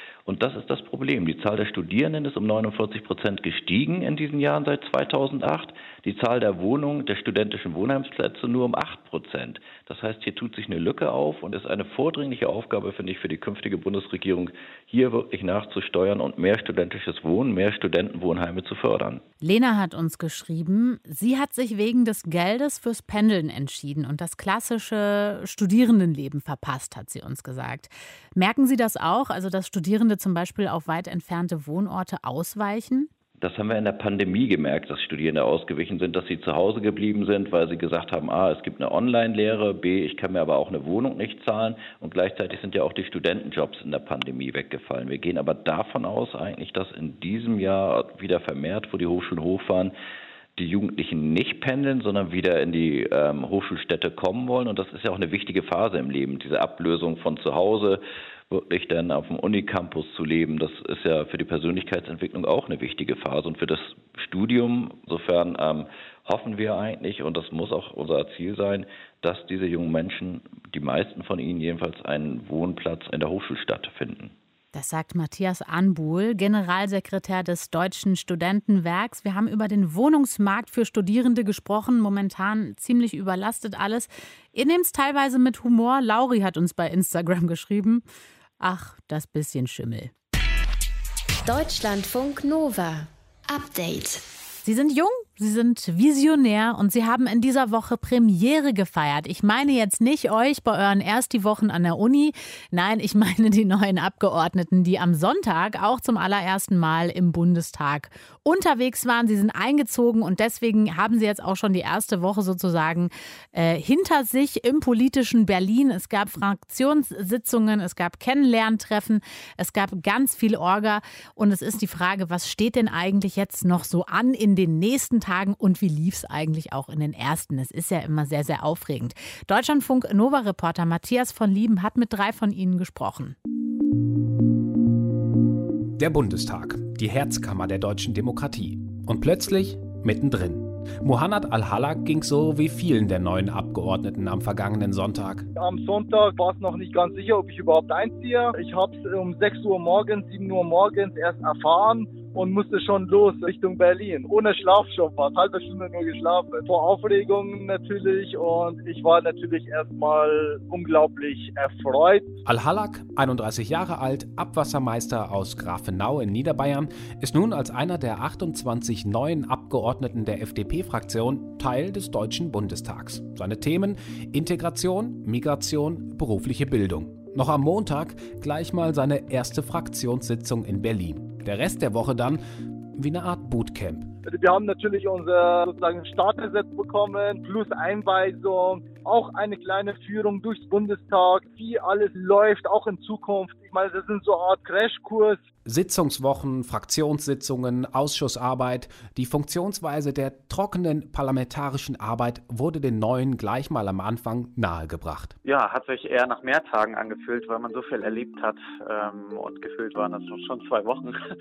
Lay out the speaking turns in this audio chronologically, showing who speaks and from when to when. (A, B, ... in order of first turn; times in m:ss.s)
0:00.3-0:19.2 A
0:19.4-0:33.1 B
0:33.4-0:49.9 A
0:50.6-1:14.3 A
1:14.7-1:28.0 B
1:28.6-1:30.1 B
1:31.4-1:34.2 C
1:34.6-2:13.4 B
2:16.0-2:25.5 D
2:25.6-2:42.3 E
2:42.4-3:02.4 D
3:03.0-3:04.1 D
3:04.2-3:15.4 E
3:15.6-3:25.4 D
3:25.4-3:31.2 F